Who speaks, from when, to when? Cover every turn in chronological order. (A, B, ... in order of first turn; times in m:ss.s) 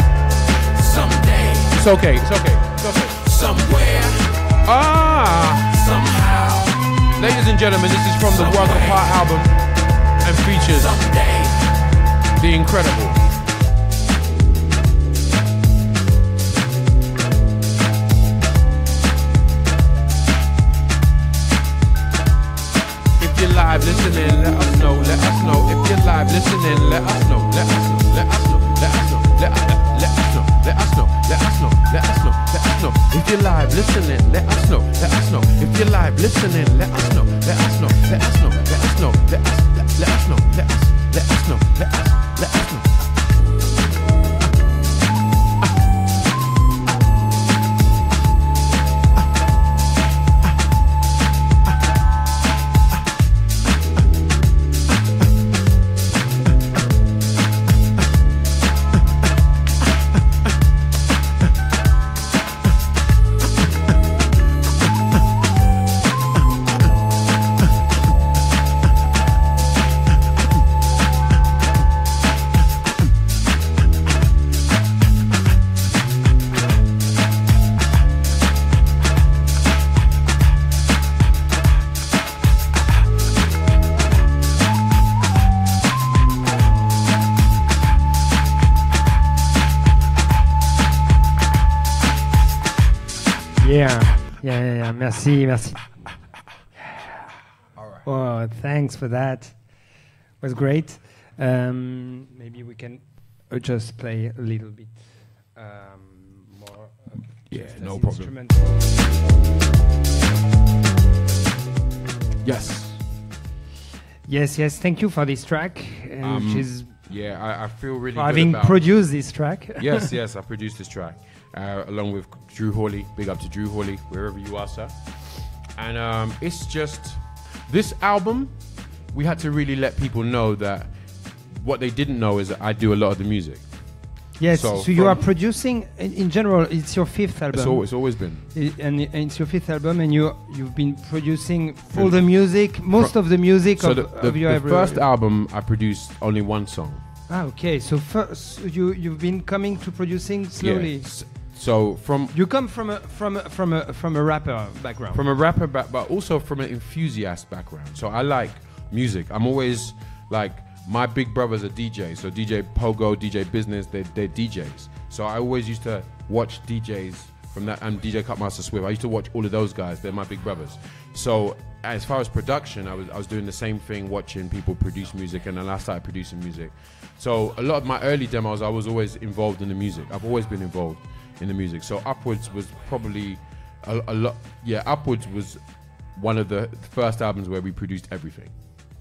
0:00.8-0:01.7 A
0:01.7-0:03.4 B
0:03.3-0:04.3 A
0:04.6-0:06.0 B
0:06.0-0:06.7 A
0:07.2-0:09.6 B
0:10.2-0:11.1 B
0:11.0-0:11.5 A
0:12.4-0:13.2 B
0:23.2-0:43.0 B
1:33.6-1:36.0 C
1:36.8-1:37.3 C
1:37.7-1:38.1 B
1:38.0-1:39.9 C
1:40.4-1:49.2 C
1:47.5-1:48.3 B
1:52.4-1:53.0 B
1:54.3-1:56.9 C
1:56.2-1:58.9 B
1:58.1-2:00.1 C
1:59.8-2:04.9 B
2:05.7-2:08.6 B
2:09.1-2:10.9 B
2:11.5-2:13.6 B
2:14.4-2:25.0 C
2:14.4-2:15.2 B
2:17.5-2:18.4 B
2:21.9-2:27.0 B
2:27.3-2:31.1 C
2:30.6-2:32.3 B
2:32.3-2:35.2 C
2:35.1-3:05.6 B
3:06.1-3:08.5 B